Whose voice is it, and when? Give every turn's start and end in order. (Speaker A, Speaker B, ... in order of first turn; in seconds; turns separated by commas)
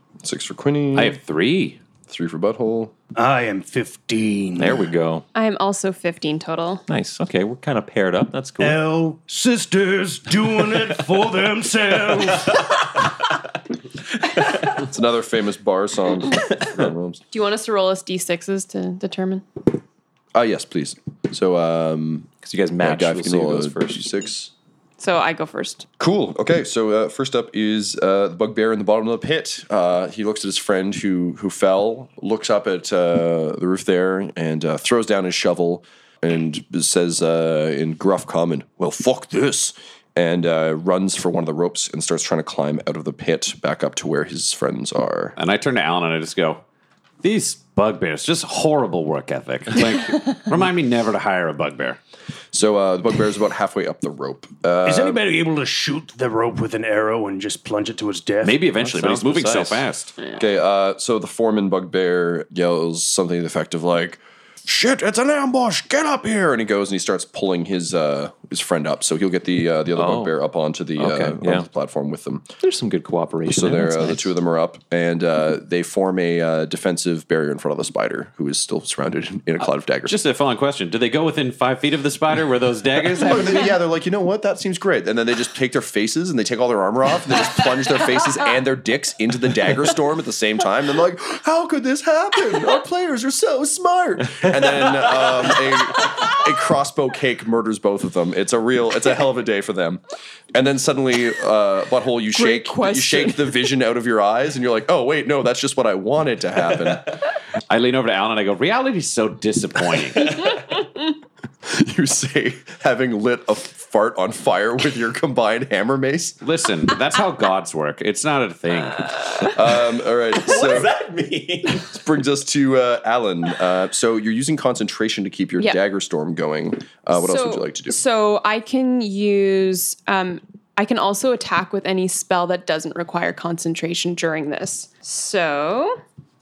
Speaker A: 0.2-1.2, Speaker B: 0.9-1.8, Speaker A: 2.1-2.9, Speaker C: 3.1-4.8, Speaker D: 4.6-5.3, Speaker E: 5.3-6.8, Speaker D: 6.9-8.8, Speaker C: 8.6-12.7, Speaker A: 14.7-17.2, Speaker E: 17.3-19.4, Speaker A: 20.3-22.3, Speaker D: 22.4-24.0, Speaker A: 22.8-24.5, Speaker E: 25.0-25.9, Speaker A: 26.0-45.4, Speaker B: 45.4-46.6, Speaker B: 47.2-52.0, Speaker A: 52.5-55.2, Speaker C: 54.8-58.6, Speaker B: 58.4-60.1, Speaker D: 58.8-59.8, Speaker A: 60.4-72.5, Speaker D: 69.9-70.3, Speaker D: 71.0-71.7, Speaker D: 72.6-74.3, Speaker A: 73.5-80.2, Speaker B: 80.1-83.7, Speaker A: 83.2-100.0, Speaker A: 100.5-107.1, Speaker E: 102.3-103.4, Speaker B: 107.7-110.4, Speaker A: 111.6-116.4, Speaker B: 116.4-119.5, Speaker A: 119.4-120.9, Speaker D: 120.4-121.8, Speaker A: 121.8-128.0, Speaker E: 127.1-136.0